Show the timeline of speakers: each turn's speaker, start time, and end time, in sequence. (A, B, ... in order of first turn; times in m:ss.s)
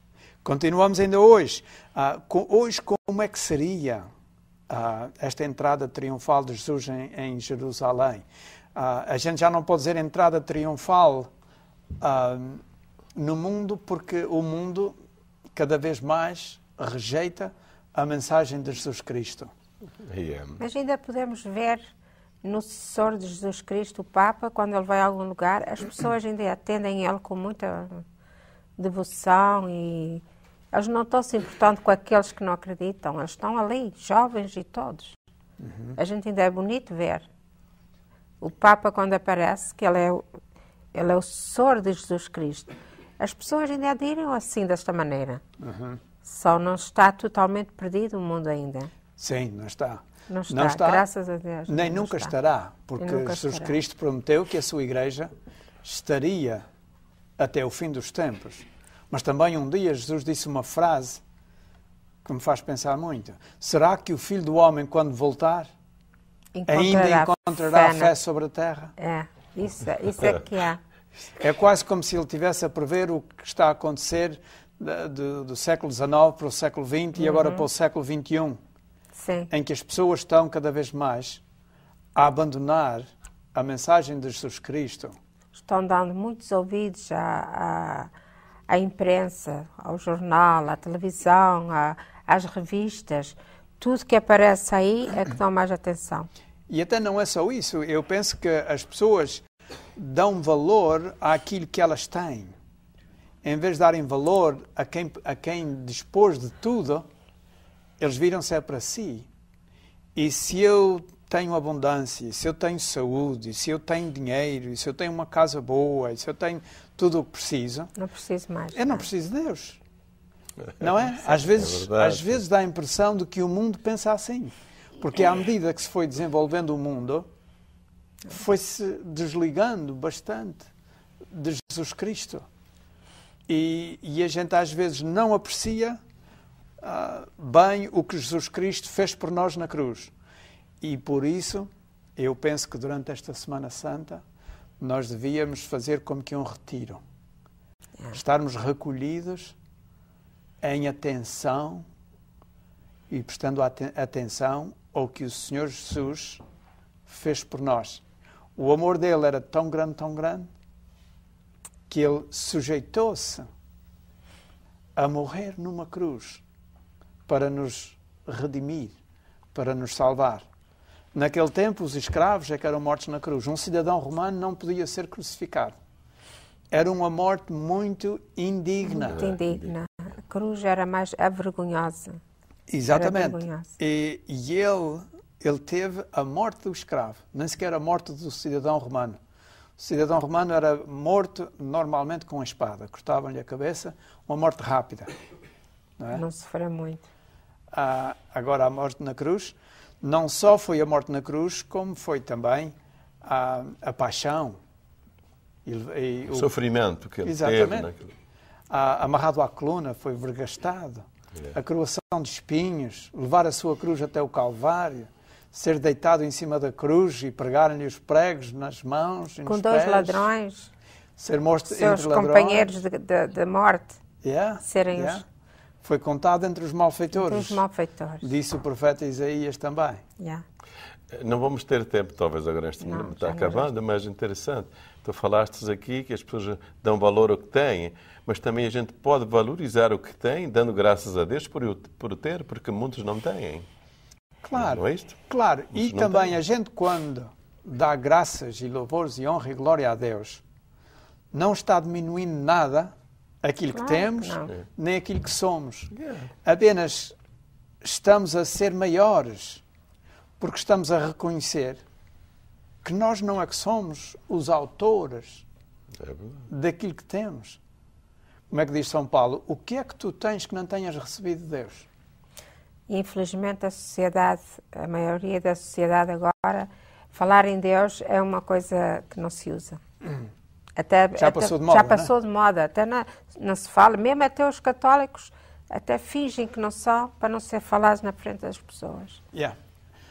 0:00.4-0:04.1 A
0:04.7-0:08.2 A
0:08.8-0:11.3 A
0:12.0-0:12.6 A
0:13.2-0:15.0 A
0:15.6-0:19.5 A
0:20.0-0:20.6 B
0:20.6-0:21.8 C
0:22.4-0:28.0 C
0:28.8-0:35.2 C
0:35.6-0:35.9 A
0:36.0-0:37.3 C
0:38.4-0:40.2 C
0:40.9-0:45.4 C
0:45.6-0:46.0 A
0:46.2-0:48.9 C
0:49.2-0:51.1 A
0:50.3-0:52.3 C
0:51.7-0:55.3 A
0:53.0-0:53.8 C
0:55.8-0:56.6 A
0:57.4-1:01.2 A
1:02.2-1:05.7 A
1:06.6-1:08.1 C
1:06.7-1:08.9 A
1:09.0-1:10.8 C
1:11.4-1:18.6 A
1:17.2-1:17.6 C
1:19.2-1:19.5 C
1:19.5-1:21.4 A
1:22.2-1:25.2 A
1:25.6-1:28.1 C
1:28.7-1:36.3 C
1:36.7-1:39.4 A
1:40.0-1:42.5 A
1:43.4-1:47.1 A
1:48.0-1:49.3 A
1:50.2-1:57.9 A
1:58.0-1:59.0 C
1:58.7-1:59.8 A
2:00.8-2:07.3 A
2:01.3-2:02.4 B
2:08.3-2:10.7 A
2:11.3-2:12.4 A
2:13.5-2:16.0 A
2:16.8-2:20.1 A
2:20.8-2:24.2 A
2:24.8-2:27.0 A
2:28.1-2:29.6 A
2:30.6-2:31.9 A
2:33.1-2:36.4 A
2:37.1-2:38.0 A
2:38.6-2:40.5 A
2:41.9-2:43.5 A
2:45.0-2:46.4 A
2:47.3-2:49.0 A
2:49.5-2:50.5 A
2:51.1-2:55.8 A
2:56.7-2:59.2 A
2:58.8-3:02.2 C
2:59.1-2:59.7 B
3:02.7-3:09.2 A
3:02.9-3:03.7 C
3:09.8-3:15.1 A
3:16.0-3:16.2 A
3:16.1-3:17.0 C
3:17.7-3:24.6 A
3:25.6-3:26.5 A
3:26.3-3:28.1 B
3:27.2-3:27.9 A
3:28.7-3:40.3 A
3:39.5-3:40.7 C
3:41.2-3:42.8 A
3:41.7-3:44.0 C
3:44.2-3:45.2 A
3:44.6-3:45.2 C
3:45.8-3:47.6 A
3:47.1-3:48.3 C
3:48.2-3:50.0 A
3:50.2-3:50.4 C
3:51.1-4:03.7 B
3:52.8-3:53.7 C
4:04.4-4:10.4 A
4:04.5-4:05.2 B
4:05.7-4:06.3 B
4:11.3-4:15.9 A
4:13.7-4:14.5 C
4:16.0-4:16.3 B
4:16.4-4:17.2 A
4:17.8-4:19.6 A
4:20.4-4:21.8 A
4:22.8-4:25.4 A
4:26.0-4:26.5 B
4:26.5-4:27.6 A
4:28.5-4:31.9 A
4:32.9-4:39.8 C
4:40.8-4:49.2 C
4:41.2-4:42.1 A